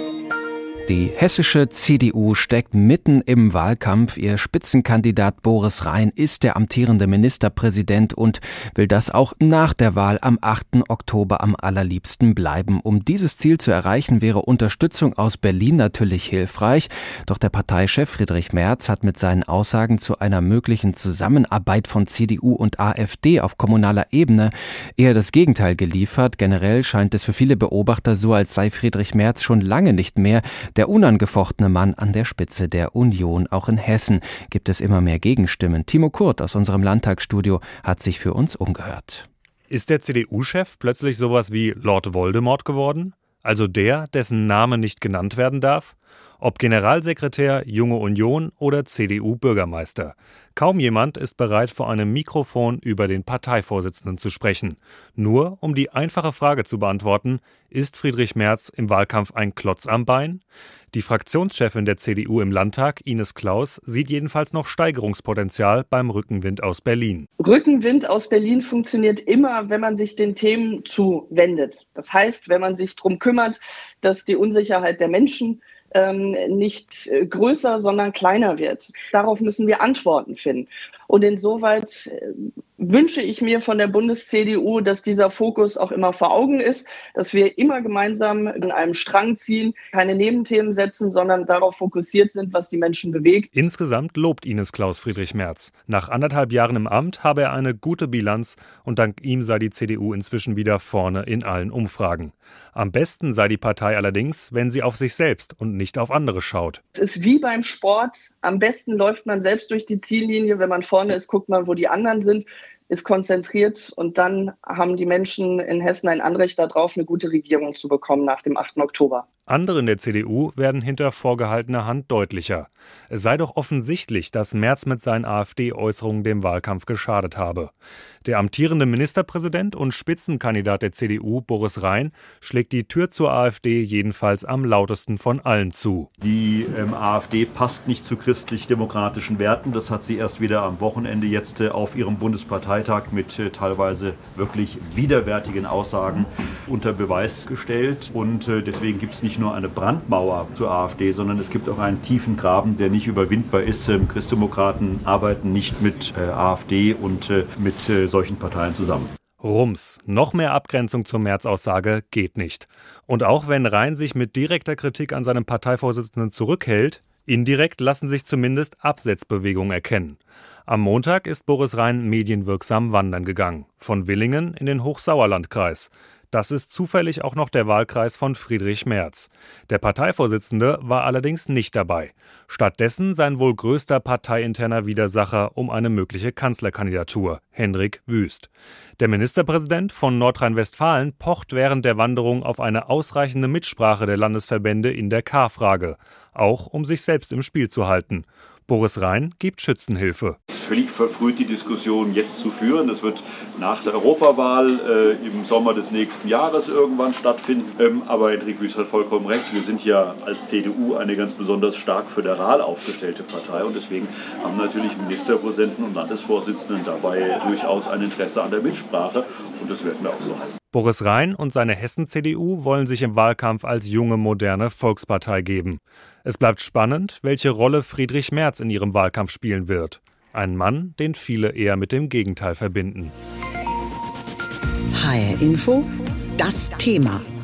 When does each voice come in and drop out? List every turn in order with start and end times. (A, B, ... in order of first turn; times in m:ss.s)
0:00.9-0:39.3 A
0:39.7-1:07.3 B
1:07.4-1:33.4 C
1:33.5-1:46.8 B
1:47.0-1:59.2 C
1:59.5-2:07.7 B
2:08.2-2:16.1 B
2:16.2-2:39.1 D
2:39.4-3:20.4 B
3:20.5-3:40.5 D
3:40.7-3:53.1 B
3:55.0-3:57.2 E